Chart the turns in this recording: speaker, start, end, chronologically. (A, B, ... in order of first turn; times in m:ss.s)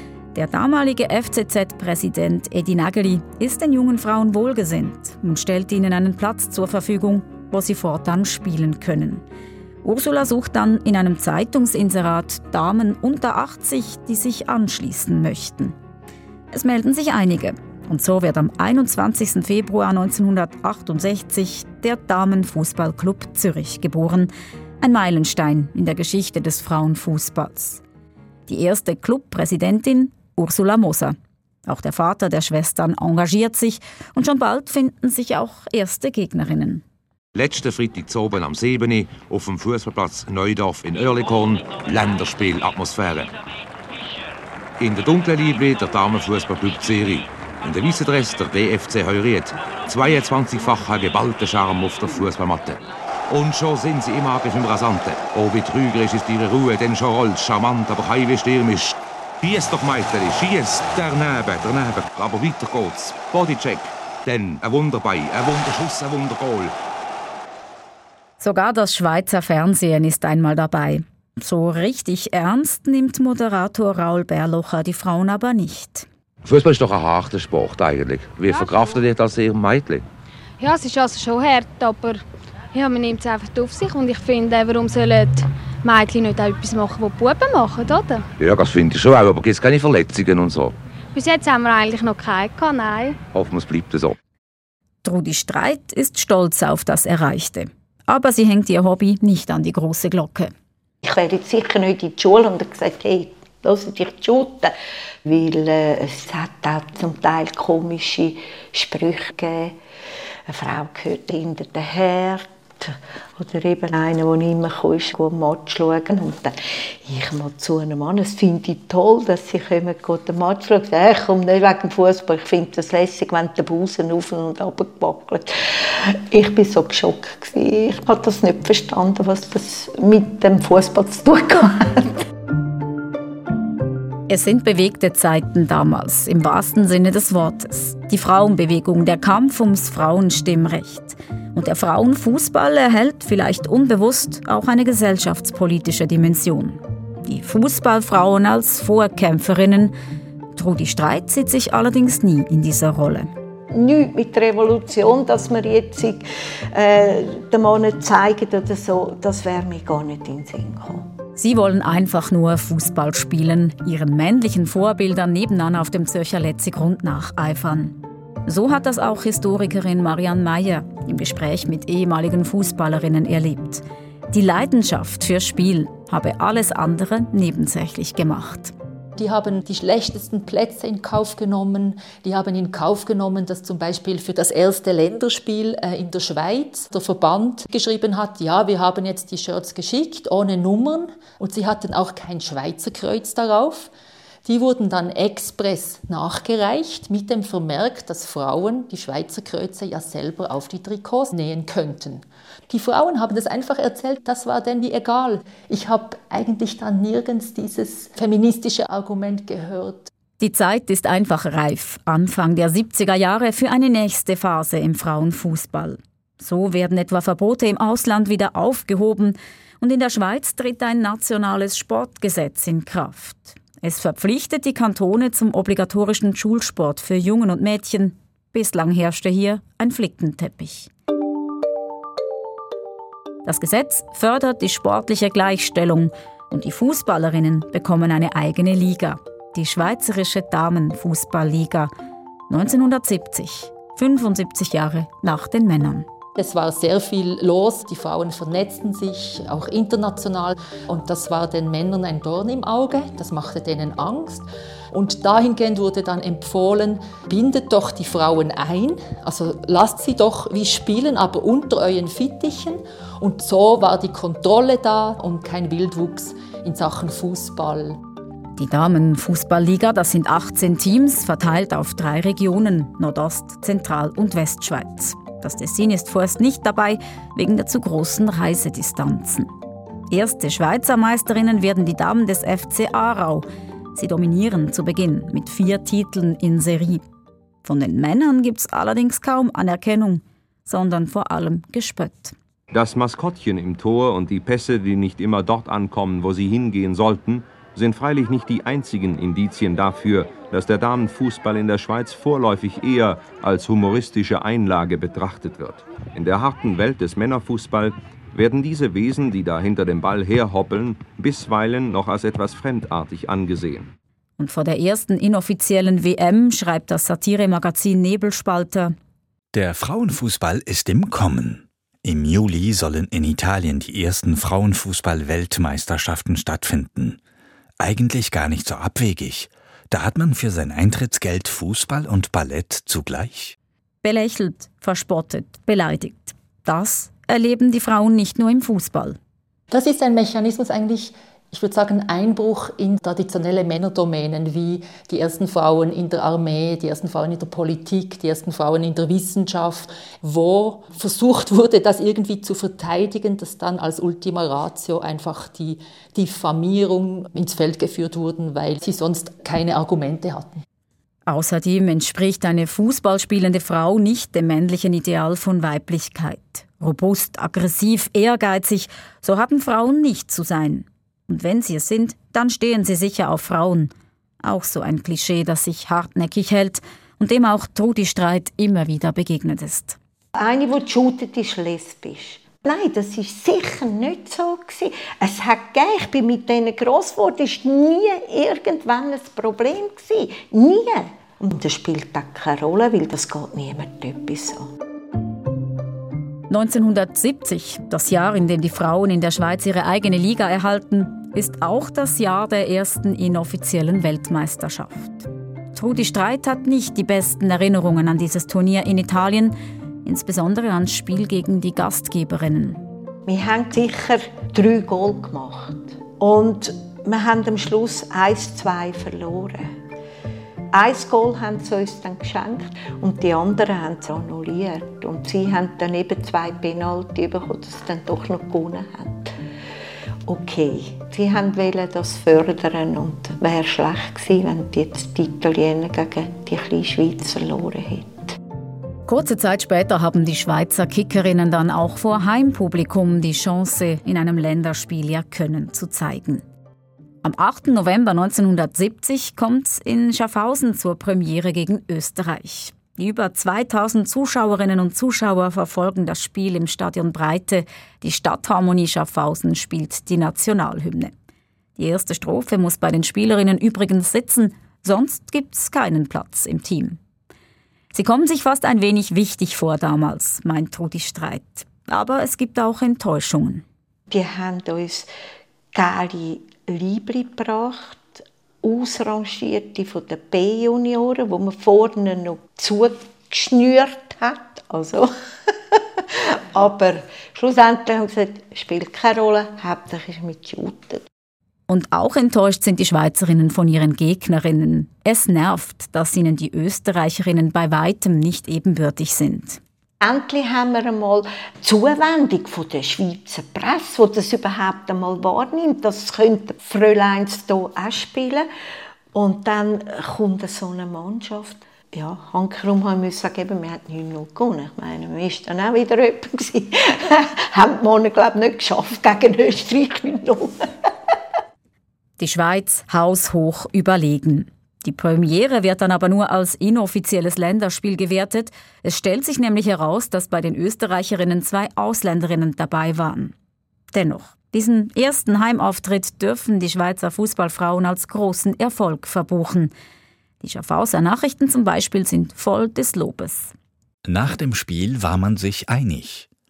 0:00.3-0:09.2 A
0:09.8-0:15.8 A
0:16.5-0:27.8 A
0:28.5-0:36.8 A
0:37.4-0:43.3 B
0:44.8-1:06.7 B
1:08.4-1:16.1 A
1:16.4-1:20.0 B
1:20.6-1:28.3 C
1:28.4-1:30.7 B
1:31.1-1:33.2 C
1:33.3-1:34.2 B
1:35.0-1:40.5 A
1:41.0-1:44.7 D
1:45.2-1:49.8 D
1:50.5-2:12.2 D
2:14.3-2:29.9 A
2:30.6-2:33.3 A
2:33.7-2:41.1 D
2:41.4-2:58.7 A
2:59.2-3:13.9 E
3:14.4-3:30.1 E
3:30.4-3:50.9 A
3:53.4-4:01.9 A
4:02.5-4:06.1 A
4:06.4-4:28.0 E
4:28.6-4:39.5 A
4:40.1-4:47.0 A
4:47.6-4:52.4 A
4:52.7-5:13.9 F
5:14.4-5:19.0 A
5:19.5-5:27.2 G
5:27.8-5:33.6 G
5:34.0-5:39.2 A
5:39.7-6:00.6 E
6:01.3-6:20.0 A
6:20.4-6:34.7 D
6:36.5-6:52.8 A
6:53.3-6:59.8 D
7:00.7-7:09.3 D
7:10.3-7:18.4 D
7:19.1-7:26.4 A
7:27.2-7:41.1 A
7:41.8-7:47.0 A
7:47.9-7:53.6 A
7:54.1-7:55.1 D
7:55.7-8:11.1 D
8:11.7-8:19.6 A
8:20.0-8:28.5 D
8:29.1-8:41.1 D
8:42.2-8:53.3 A
8:53.9-8:59.7 A
9:00.4-9:03.5 A
9:04.0-9:06.3 G